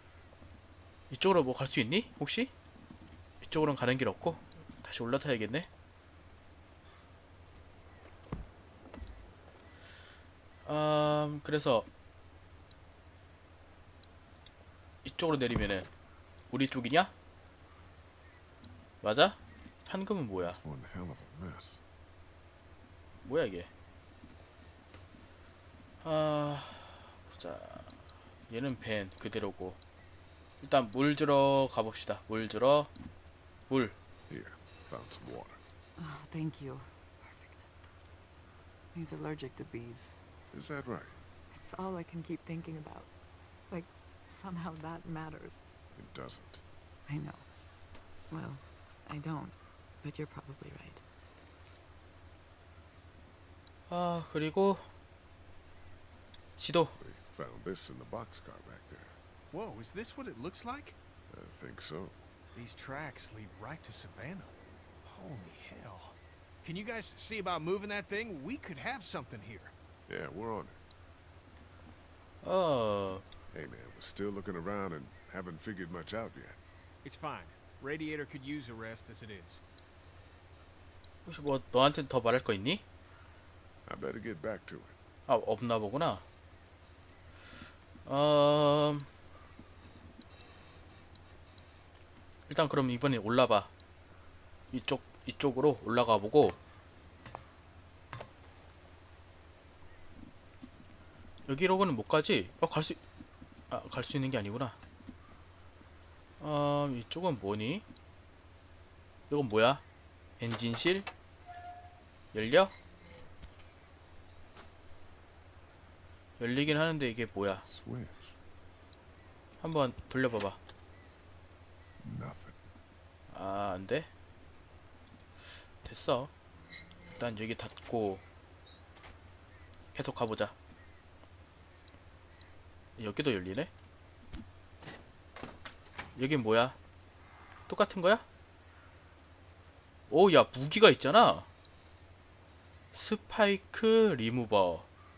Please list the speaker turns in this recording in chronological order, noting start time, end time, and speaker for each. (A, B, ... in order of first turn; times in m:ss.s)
0:01.1-0:02.5 A
0:03.4-0:05.7 A
0:10.6-0:11.9 A
0:15.0-0:15.9 A
0:16.5-0:17.1 A
0:19.0-0:20.6 A
0:20.4-0:21.8 B
0:23.2-0:23.7 A
0:26.0-0:27.9 A
0:28.5-0:29.8 A
0:30.6-0:32.9 A
0:33.7-0:33.9 A
0:34.3-0:35.6 B
0:36.0-0:37.7 C
0:38.9-0:40.1 C
0:40.5-0:41.2 B
0:41.5-0:43.1 C
0:43.7-0:45.6 C
0:45.9-0:46.6 B
0:47.1-0:47.4 C
0:48.3-0:51.0 C
0:53.9-0:54.8 A
0:56.6-0:56.9 A
0:57.0-0:59.2 B
0:59.5-1:01.0 D
1:01.3-1:02.2 B
1:02.5-1:09.7 D
1:10.1-1:10.8 B
1:12.4-1:13.2 A
1:13.5-1:16.6 B
1:17.0-1:19.6 D
1:21.2-1:22.8 A
1:23.8-1:24.9 B
1:25.3-1:26.2 A
1:28.0-1:29.1 A
1:32.5-1:33.7 A
1:34.7-1:36.6 A
1:41.5-1:43.0 A
1:43.7-1:44.8 A
1:46.4-1:47.8 A
1:49.3-1:49.8 A
1:50.4-1:51.1 A
1:52.3-1:52.7 A
1:56.4-1:57.6 A
1:57.6-1:58.4 B
1:59.6-2:00.6 A
2:02.0-2:02.6 B
2:03.3-2:04.1 A
2:05.8-2:06.3 A
2:07.2-2:08.2 A
2:09.9-2:10.5 A
2:13.0-2:13.7 A
2:16.2-2:16.8 A
2:17.7-2:18.2 A
2:20.1-2:21.4 A
2:22.9-2:24.8 A